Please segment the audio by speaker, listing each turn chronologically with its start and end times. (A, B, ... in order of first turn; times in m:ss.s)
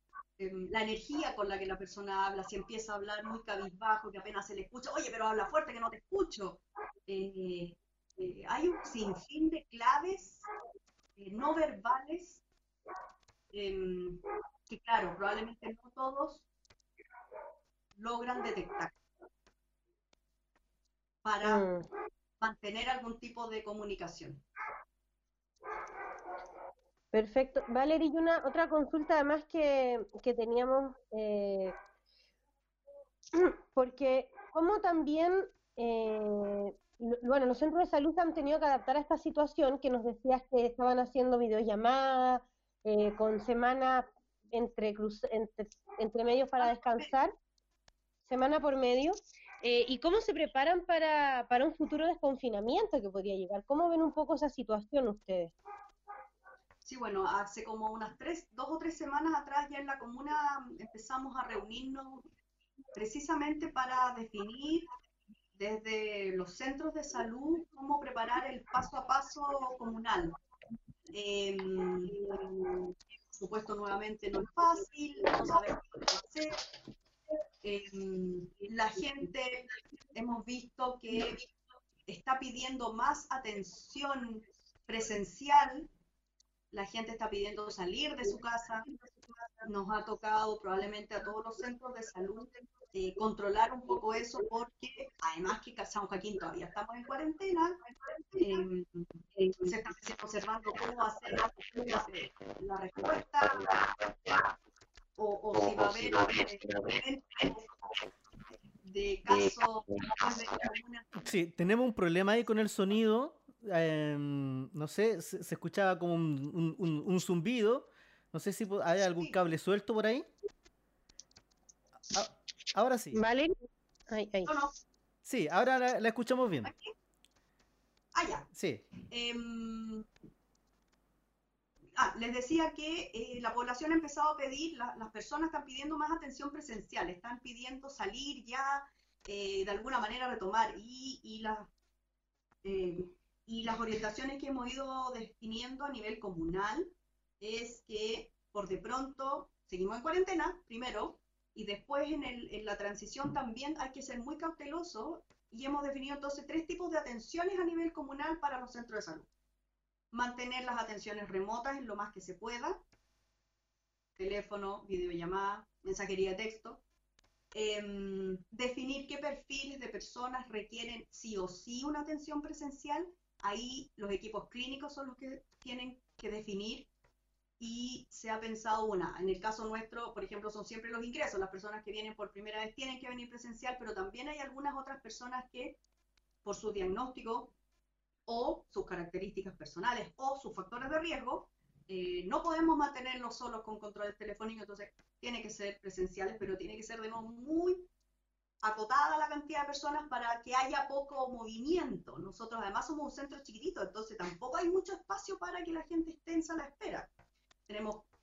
0:00.4-0:10.5 A
0:11.2-0:12.4 A
0:13.5-0:16.5 A
0:18.0-0:18.9 A
0:21.2-0:21.7 A
0:21.4-0:21.8 B
0:22.4-0:24.4 A
0:27.1-0:31.8 B
0:33.3-0:47.3 B
0:46.6-0:47.1 A
0:48.3-0:55.5 B
0:56.8-1:02.2 A
1:03.0-1:04.9 A
1:05.6-1:10.4 A
1:11.1-1:16.6 A
1:17.6-1:21.4 A
1:22.1-1:25.9 A
1:26.7-1:28.9 A
1:29.6-1:37.8 A
1:38.4-1:43.9 A
1:45.2-1:47.7 A
1:48.8-1:51.1 A
1:51.2-2:00.3 C
2:02.1-2:03.2 C
2:03.1-2:03.5 B
2:04.1-2:04.5 B
2:04.5-2:04.7 A
2:05.2-2:06.7 C
2:06.6-2:06.9 A
2:08.1-2:08.5 A
2:08.5-2:08.8 C
2:09.0-2:10.1 A
2:12.0-2:21.7 A
2:22.6-2:39.3 A
2:40.1-2:42.8 A
2:44.2-2:46.8 A
2:47.5-2:56.9 A
2:57.6-3:05.8 A
3:06.4-3:07.5 A
3:08.3-3:17.9 A
3:18.6-3:27.1 A
3:27.7-3:28.1 A